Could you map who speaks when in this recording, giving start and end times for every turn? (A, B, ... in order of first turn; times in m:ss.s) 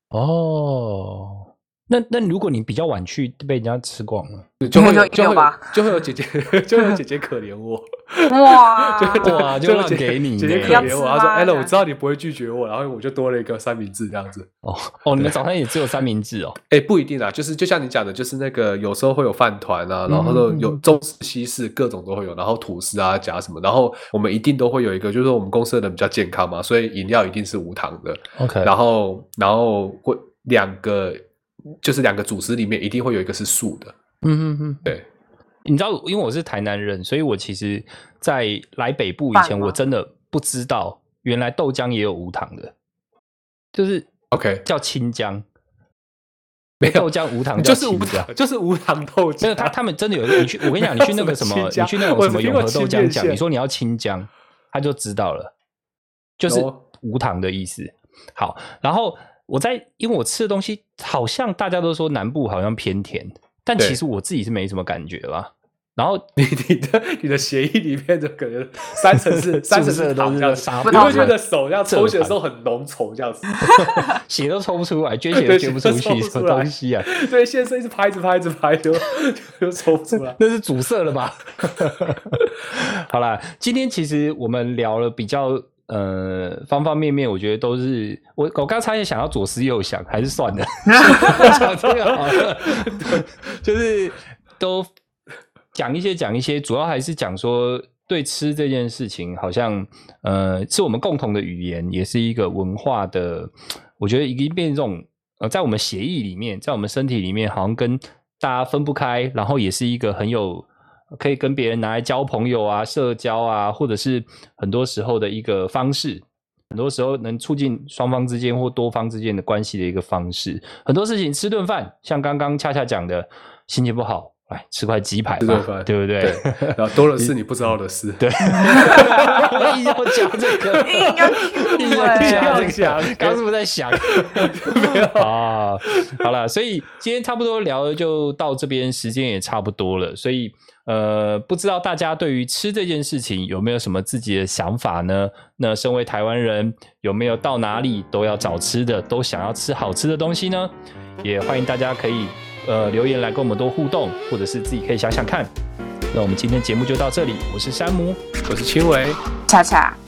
0:00.1-0:04.5 A
0:04.6-0:14.5 B
0:04.7-0:05.7 C
0:08.3-0:09.5 C
0:09.2-0:10.9 A
0:10.6-0:11.8 C
0:14.6-0:16.6 A
0:16.7-0:31.2 B
0:20.1-0:20.8 A
0:28.4-0:28.7 A
0:31.8-0:33.9 B
0:34.2-0:34.9 A
0:35.6-0:42.7 A
0:39.3-0:39.8 C
0:43.7-0:44.1 A
0:44.3-0:44.6 B
0:44.6-0:45.4 A
0:46.8-0:49.7 B
0:46.8-0:48.3 A
0:49.4-0:55.5 A
0:50.3-0:53.4 B
0:56.4-1:06.2 A
0:56.5-0:56.8 B
1:06.4-1:13.6 B
1:09.2-1:12.4 A
1:10.8-1:11.3 C
1:13.6-1:14.1 C
1:13.8-1:17.1 A
1:15.3-1:20.4 B
1:20.4-1:34.9 A
1:30.8-1:31.6 C
1:31.4-1:33.2 B
1:35.7-2:07.3 A
2:05.4-2:09.8 B
2:08.2-2:30.7 A
2:08.8-2:09.2 C
2:10.6-2:13.4 B
2:10.7-2:12.7 C
2:14.0-2:15.3 B
2:15.9-2:16.2 B
2:31.2-2:35.5 A
2:36.1-2:38.2 A
2:38.4-2:39.2 B
2:39.5-2:40.0 C